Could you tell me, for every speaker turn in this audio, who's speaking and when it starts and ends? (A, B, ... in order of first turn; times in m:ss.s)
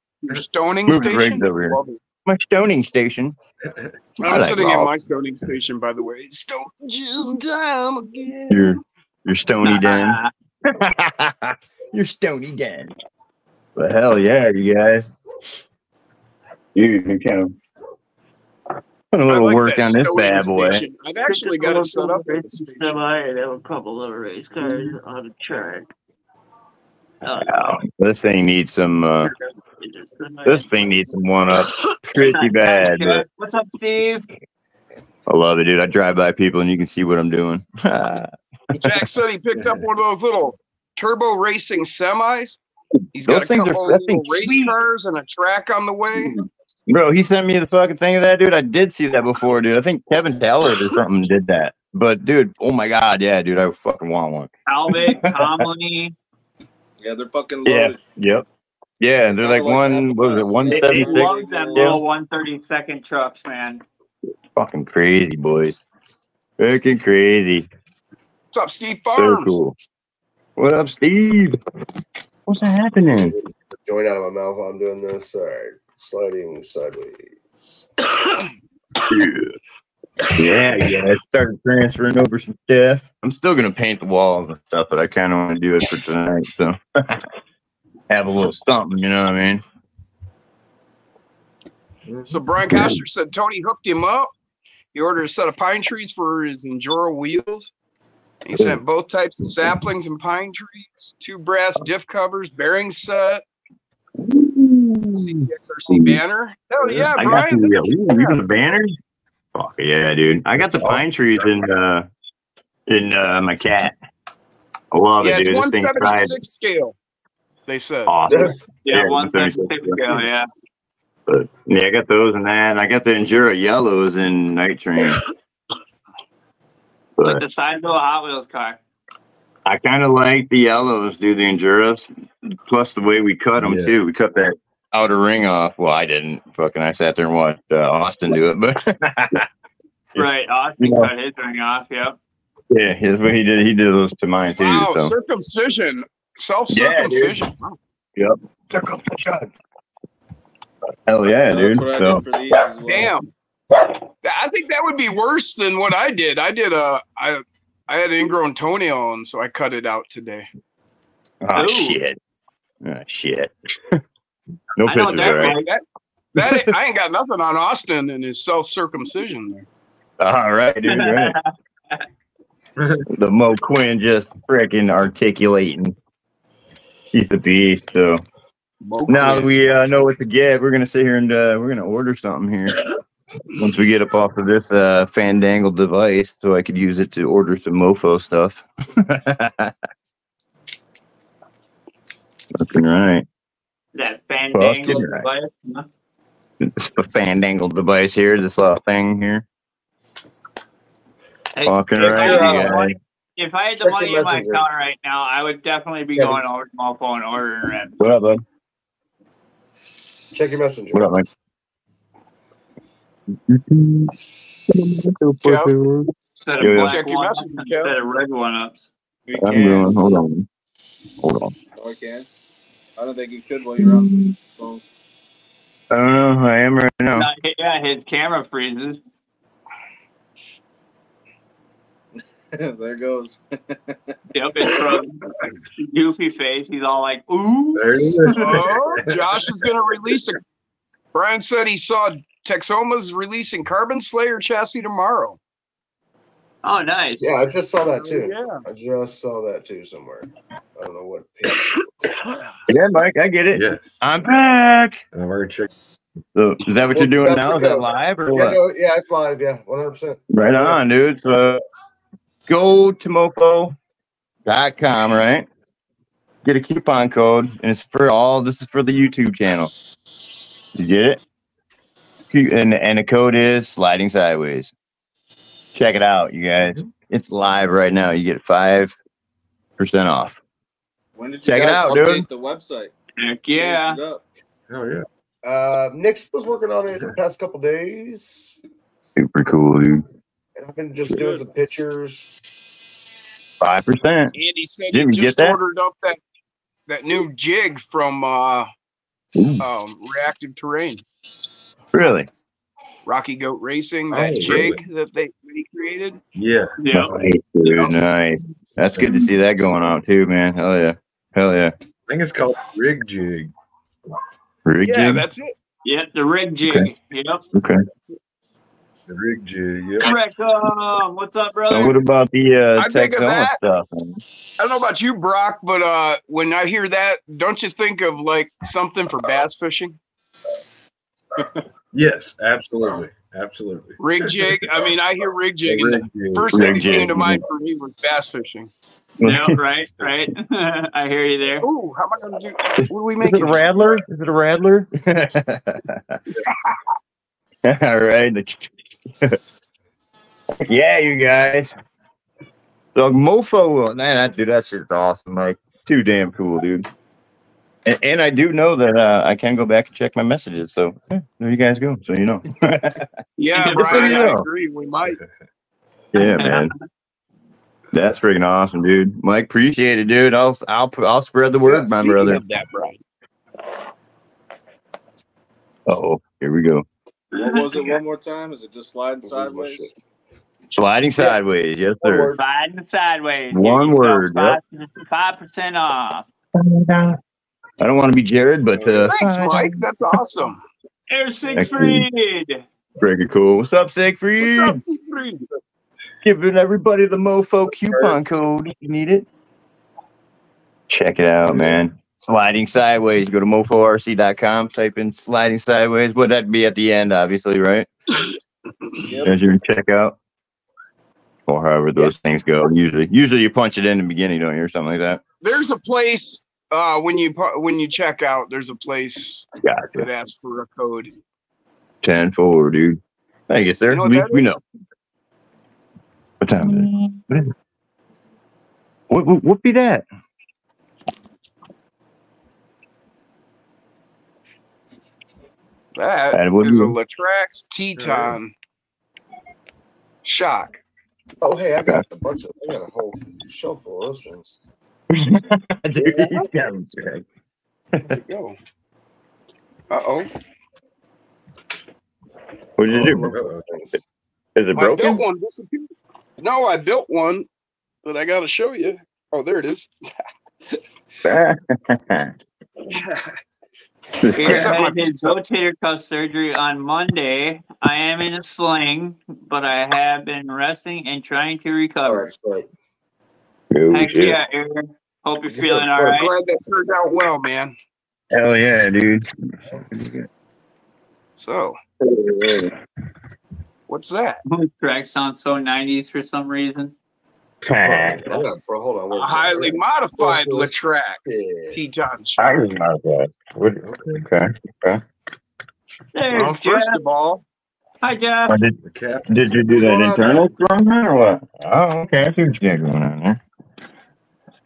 0:00.2-0:02.0 A
0:00.8-0:03.4 B
0:04.2-0:08.8 A
0:04.3-0:05.0 B
0:08.5-0:12.9 B
0:09.6-0:10.3 C
0:13.8-0:15.1 B
0:16.7-0:17.5 B
0:19.1-0:20.8 B
0:19.2-0:23.0 A
0:21.3-0:25.9 C
0:27.2-0:27.8 C
0:27.4-0:29.3 B
0:29.2-0:30.7 C
0:30.4-0:33.2 B
0:32.3-0:34.2 C
0:35.3-0:39.0 B
0:38.7-0:42.6 A
0:43.1-0:46.4 A
0:43.2-0:44.6 B
0:44.4-0:44.7 C
0:46.9-0:55.5 B
0:54.7-0:56.1 C
0:57.0-0:58.0 D
0:57.6-0:58.4 B
0:59.0-1:02.0 B
0:59.4-1:02.0 D
1:00.7-1:03.8 C
1:04.6-1:05.8 B
1:06.6-1:07.7 B
1:08.5-1:09.6 A
1:09.1-1:09.8 B
1:10.6-1:11.6 B
1:12.5-1:13.3 B
1:13.1-1:17.3 E
1:19.1-1:19.6 B
1:20.3-1:27.2 B
1:28.1-1:29.6 B
1:32.1-1:32.4 F
1:32.3-1:34.3 A
1:32.7-1:33.0 B
1:34.9-1:37.7 A
1:38.4-1:43.4 A
1:38.5-1:38.8 B
1:44.2-1:46.2 B
1:45.1-1:48.5 A
1:47.1-1:49.0 B
1:49.5-1:52.1 B
1:52.9-1:53.9 B
1:54.9-1:56.4 B
1:55.2-1:57.0 A
1:57.7-1:58.2 A
1:58.1-2:00.2 B
1:58.3-1:58.6 E
1:58.8-2:00.5 C
2:01.3-2:05.2 B
2:07.2-2:07.4 B
2:07.2-2:08.8 C
2:09.6-2:12.1 B
2:12.7-2:19.5 B
2:13.6-2:13.9 F
2:20.2-2:22.2 C
2:20.8-2:21.1 B
2:22.7-2:25.1 B
2:24.6-2:27.8 A
2:26.7-2:27.4 B
2:28.2-2:29.5 B
2:31.1-2:32.2 B
2:31.5-2:33.1 D
2:32.8-2:33.3 A
2:34.2-2:40.5 A
2:41.4-2:42.2 B
2:41.5-2:42.0 C
2:42.8-2:44.0 B
2:44.8-2:45.6 B
2:44.8-2:45.7 C
2:45.2-2:45.8 A
2:46.3-2:49.6 A
2:46.4-2:46.7 B
2:50.2-2:51.4 B
2:50.9-2:52.0 C
2:52.8-2:53.0 F
2:53.1-2:56.0 B
2:57.1-2:58.2 B
2:58.8-2:59.5 A
2:59.1-3:02.9 B
3:03.5-3:09.7 B
3:12.5-3:13.2 B
3:13.9-3:15.9 C
3:14.5-3:15.3 B
3:16.6-3:19.4 B
3:21.5-3:28.0 C
3:21.6-3:23.0 B
3:22.1-3:22.8 E
3:23.8-3:24.6 E
3:26.2-3:26.5 E
3:28.0-3:28.4 B
3:30.3-3:31.1 E
3:30.9-3:31.2 B
3:33.5-3:34.1 B
3:34.7-3:37.0 B
3:35.4-3:35.7 A
3:36.4-3:38.9 C
3:36.6-3:37.9 A
3:39.3-3:40.2 D
3:39.4-3:40.4 B
3:41.2-3:41.5 B
3:41.8-3:42.3 D
3:43.0-3:44.8 D
3:43.8-3:44.3 B
3:45.9-3:47.3 B
3:47.1-3:49.0 C
3:52.5-3:54.1 D
3:54.3-3:55.2 C
3:55.8-3:58.7 C
3:57.7-3:59.6 F
3:58.3-4:00.4 A
4:01.1-4:05.4 A
4:06.6-4:07.3 C
4:07.2-4:11.8 E
4:08.0-4:08.6 A
4:12.7-4:15.0 B
4:13.5-4:14.0 F
4:15.1-4:15.7 F
4:16.3-4:18.6 B
4:16.9-4:20.8 E
4:20.3-4:21.6 B
4:22.5-4:23.8 B
4:24.4-4:25.5 B
4:26.4-4:29.7 B
4:30.7-4:31.2 B
4:32.3-4:34.7 B
4:35.7-4:39.0 B
4:39.8-4:40.4 B
4:41.1-4:42.9 D
4:41.4-4:42.2 B
4:43.2-4:44.0 C
4:43.5-4:44.2 D
4:44.7-4:45.0 F
4:45.4-4:48.5 E
4:49.2-4:50.0 B
4:50.6-4:52.3 E
4:51.1-4:51.4 D
4:53.6-4:54.3 B
4:54.3-4:56.2 A
4:54.9-4:55.6 B
4:56.9-4:58.7 A
4:59.4-4:59.6 B
4:59.6-5:01.0 A
5:01.9-5:02.3 B
5:03.0-5:06.2 A
5:04.1-5:04.8 F
5:06.4-5:07.3 F
5:06.8-5:07.1 C
5:07.1-5:11.7 B
5:07.6-5:07.9 A
5:12.1-5:13.5 F
5:14.6-5:15.2 B
5:14.8-5:15.5 A
5:15.8-5:17.4 C
5:17.5-5:17.8 B
5:19.1-5:20.1 F
5:20.0-5:22.0 C
5:21.7-5:24.2 B
5:22.8-5:23.6 A
5:24.6-5:30.0 A
5:31.9-5:34.9 F
5:34.0-5:38.7 A
5:35.6-5:37.3 F
5:36.5-5:37.4 B
5:39.2-5:39.6 B
5:39.2-5:41.7 C
5:41.6-5:44.0 A
5:42.8-5:46.2 B
5:47.6-5:49.4 B
5:50.6-5:51.7 B
5:52.9-5:56.9 B
5:57.8-6:03.1 B
6:03.4-6:05.2 A
6:03.5-6:04.3 C
6:03.8-6:04.4 B
6:06.1-6:06.7 B
6:06.2-6:06.7 C
6:07.9-6:12.4 B
6:11.6-6:13.0 A
6:15.9-6:16.8 B
6:17.3-6:19.9 D
6:17.3-6:18.0 C
6:19.2-6:19.8 E
6:20.7-6:22.3 B
6:22.0-6:22.4 E
6:22.3-6:26.3 C
6:23.5-6:24.6 B
6:26.6-6:27.2 B
6:27.8-6:29.8 B
6:29.0-6:30.6 A
6:31.1-6:32.6 C
6:31.5-6:32.0 B
6:33.0-6:34.8 B
6:34.4-6:35.5 A
6:36.2-6:39.2 B
6:40.9-6:47.9 B
6:49.0-6:49.3 D
6:49.2-6:50.2 B
6:51.5-6:55.2 B
6:55.4-7:01.1 A
6:59.6-7:00.1 B
7:02.0-7:04.6 B
7:03.9-7:04.5 A
7:06.4-7:07.5 B
7:09.1-7:10.0 B
7:16.0-7:18.5 A
7:16.3-7:17.0 B
7:18.0-7:18.3 F
7:20.2-7:20.8 A
7:21.4-7:24.6 E
7:25.1-7:27.2 B
7:28.1-7:28.6 A
7:29.9-7:30.3 A
7:32.8-7:33.3 B
7:32.9-7:34.0 E
7:33.1-7:33.6 F
7:34.6-7:35.2 B
7:34.8-7:35.9 A
7:36.4-7:37.5 A
7:38.0-7:39.9 A
7:41.2-7:42.3 B
7:42.9-7:43.4 A
7:44.2-7:44.8 B
7:44.3-7:52.3 C
7:44.4-7:45.4 A
7:52.0-7:52.7 E
7:53.7-7:54.4 B
7:53.9-7:56.3 C
7:55.5-7:56.2 E
7:56.1-7:57.7 A
7:58.3-7:59.2 B
7:59.9-8:00.2 B
8:01.4-8:01.8 A
8:02.0-8:02.7 B
8:03.9-8:04.4 A
8:04.5-8:06.9 C
8:07.6-8:08.3 B
8:07.8-8:10.7 E
8:09.1-8:12.6 A
8:11.2-8:11.8 E
8:12.4-8:15.0 B
8:13.8-8:14.1 F
8:16.1-8:17.0 C
8:16.3-8:17.4 A
8:18.0-8:18.6 C
8:18.5-8:18.7 B
8:18.8-8:20.5 F
8:19.3-8:23.4 B